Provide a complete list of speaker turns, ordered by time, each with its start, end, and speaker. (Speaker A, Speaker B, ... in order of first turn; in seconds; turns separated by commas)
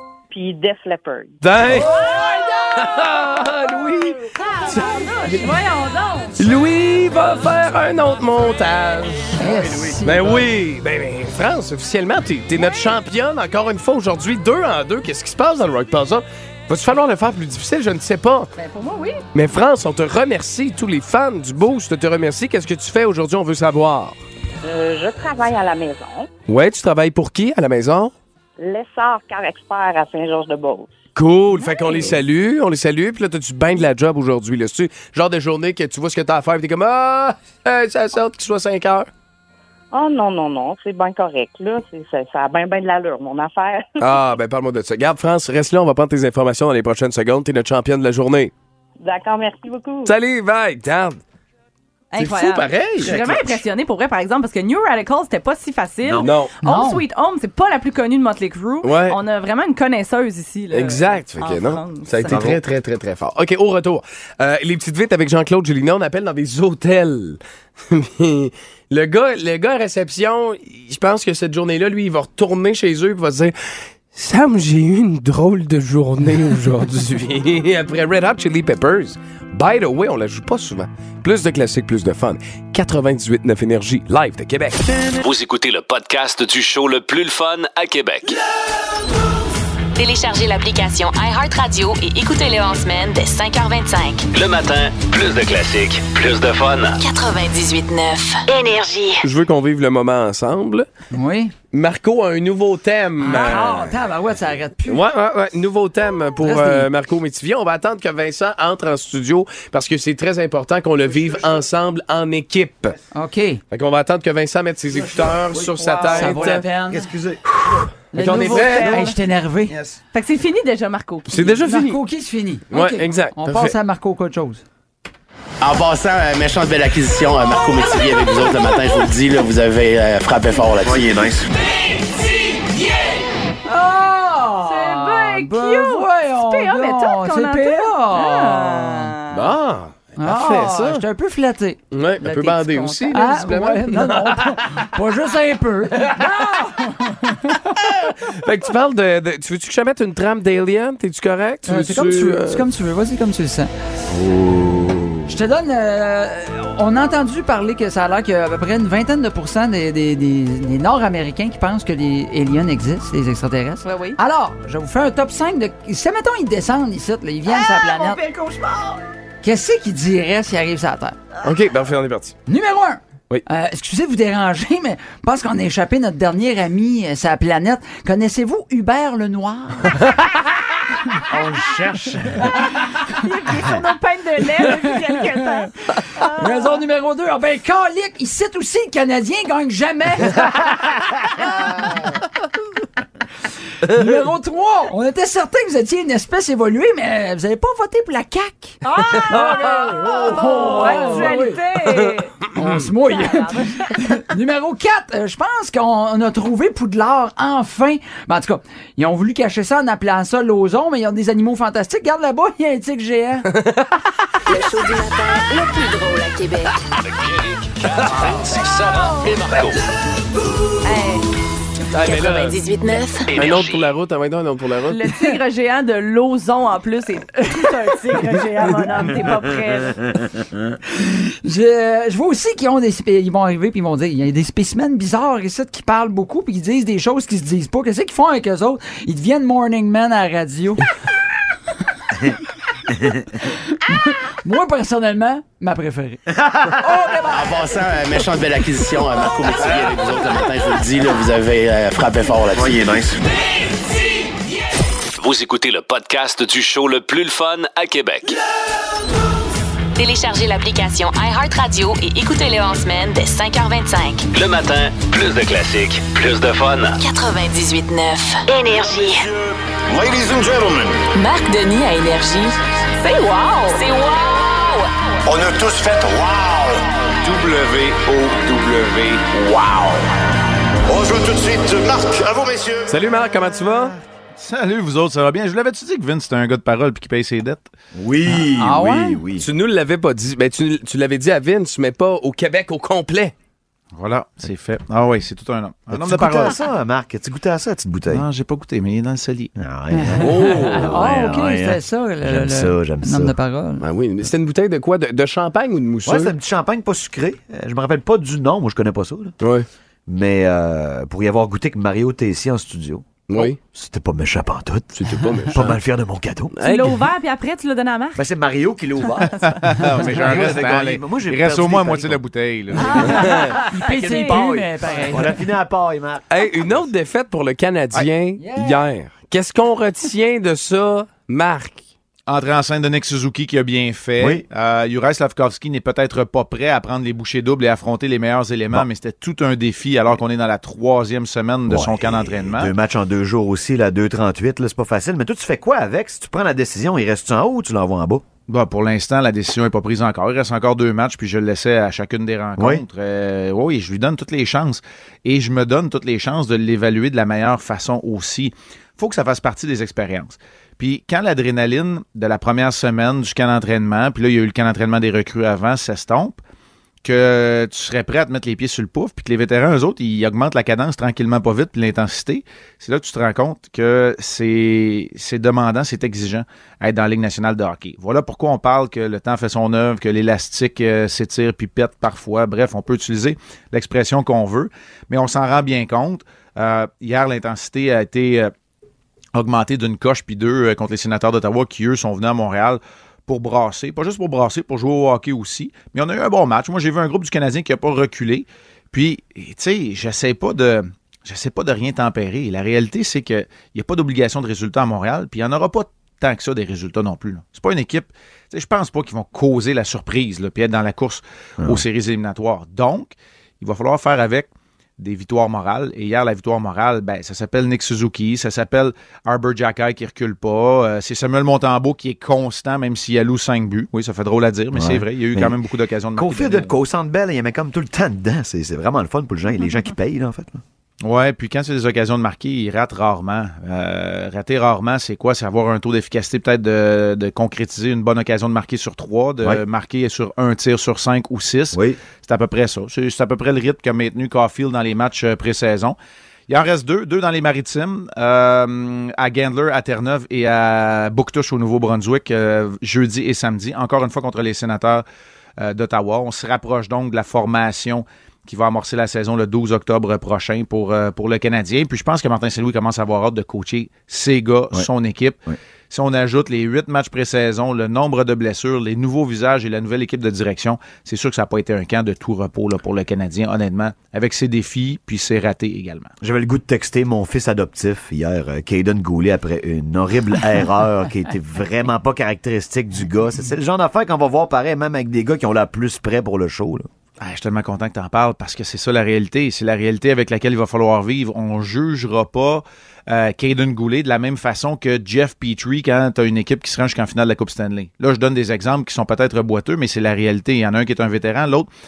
Speaker A: 0.3-1.4, Speaker B: 1.4-2.1, Speaker C: 1.8-2.7, Speaker D: 1.9-2.8, Speaker B: 2.7-5.5, Speaker C: 4.4-6.4, Speaker B: 6.4-18.5, Speaker D: 9.4-10.5, Speaker E: 9.7-10.0, Speaker C: 18.6-19.2, Speaker B: 19.3-24.2, Speaker A: 24.6-26.3, Speaker B: 26.5-28.1, Speaker A: 28.6-31.0, Speaker B: 31.1-39.1, Speaker A: 39.9-44.1, Speaker B: 44.0-48.5, Speaker A: 49.0-50.2, Speaker B: 50.0-51.2, Speaker C: 52.1-62.5, Speaker B: 52.2-53.2, Speaker E: 53.0-53.6, Speaker E: 56.0-56.3, Speaker B: 56.2-56.5, Speaker D: 56.6-57.0, Speaker B: 58.8-59.2, Speaker B: 60.7-73.5, Speaker E: 62.3-62.6, Speaker B: 74.1-84.8, Speaker F: 85.2-88.4, Speaker G: 90.0-94.3, Speaker F: 94.3-97.0, Speaker G: 97.0-99.2, Speaker B: 99.2-100.9, Speaker D: 101.1-101.5, Speaker B: 101.7-104.0, Speaker D: 103.2-105.1, Speaker B: 104.9-113.0, Speaker D: 106.4-106.9, Speaker D: 113.1-113.6, Speaker B: 113.7-116.7, Speaker E: 115.0-117.9, Speaker D: 115.9-117.1, Speaker B: 117.5-119.1, Speaker D: 118.1-119.8, Speaker C: 118.2-119.1, Speaker C: 120.1-121.6, Speaker B: 121.3-122.0, Speaker D: 121.6-124.6, Speaker B: 122.7-123.8, Speaker H: 125.6-131.2, Speaker E: 130.8-131.5, Speaker D: 133.7-139.1, Speaker C: 134.7-139.4, Speaker B: 139.3-141.0, Speaker D: 140.2-147.7, Speaker B: 141.9-144.9, Speaker B: 147.8-152.7, Speaker D: 151.7-153.7, Speaker E: 154.1-155.2, Speaker D: 155.3-168.2, Speaker C: 163.8-164.2, Speaker C: 167.5-169.0, Speaker D: 169.4-171.2, Speaker B: 171.4-172.3, Speaker D: 172.5-180.1, Speaker E: 181.3-182.4, Speaker D: 182.4-182.8, Speaker C: 183.1-186.8, Speaker D: 186.2-191.7, Speaker D: 193.8-201.6, Speaker C: 198.9-204.0, Speaker B: 199.2-199.7, Speaker B: 202.0-202.7, Speaker D: 202.5-213.5, Speaker B: 213.5-213.9, Speaker G: 214.5-216.7, Speaker F: 217.0-219.8, Speaker C: 220.8-221.2, Speaker B: 221.9-222.6, Speaker G: 222.0-223.3, Speaker F: 223.3-223.9, Speaker B: 223.3-225.0, Speaker C: 224.9-230.2, Speaker D: 230.9-240.9, Speaker D: 243.5-247.8, Speaker E: 246.4-246.8, Speaker H: 247.3-252.8, Speaker E: 252.5-253.2, Speaker F: 255.2-258.4, Speaker G: 260.0-264.3, Speaker F: 264.3-267.0, Speaker G: 267.0-269.3, Speaker I: 268.7-271.0, Speaker G: 271.1-272.6, Speaker C: 273.0-273.8, Speaker G: 273.4-274.9, Speaker I: 275.2-279.7, Speaker F: 277.2-277.5, Speaker F: 278.5-279.3, Speaker I: 280.9-282.9, Speaker B: 282.9-283.9, Speaker J: 284.4-287.7, Speaker E: 287.9-289.4, Speaker D: 288.3-289.2, Speaker B: 289.4-293.3, Speaker J: 294.0-296.6, Speaker E: 295.9-298.2, Speaker J: 298.1-299.5, Speaker E: 299.6-303.4, Speaker D: 299.9-303.9, Speaker B: 300.2-301.0, Speaker B: 303.8-306.3, Speaker E: 306.1-309.4, Speaker B: 309.4-309.7, Speaker E: 310.1-316.6, Speaker B: 313.3-313.6, Speaker B: 315.0-315.8, Speaker B: 316.5-317.0, Speaker C: 316.6-318.2, Speaker E: 318.2-319.4, Speaker J: 319.4-323.1, Speaker E: 320.0-322.2, Speaker D: 322.8-325.3, Speaker E: 322.8-326.9, Speaker C: 323.6-324.6, Speaker B: 326.3-331.9, Speaker D: 328.4-328.9, Speaker J: 332.3-342.7, Speaker E: 334.2-334.4, Speaker E: 341.7-348.2, Speaker J: 348.5-366.4, Speaker J: 367.0-388.5, Speaker J: 389.4-426.7, Speaker E: 411.6-411.8, Speaker E: 424.7-425.6, Speaker E: 426.1-430.6, Speaker J: 431.0-446.0, Speaker E: 441.7-442.0, Speaker J: 446.5-455.1, Speaker J: 455.6-476.1, Speaker E: 476.2-486.9, Speaker J: 487.2-501.7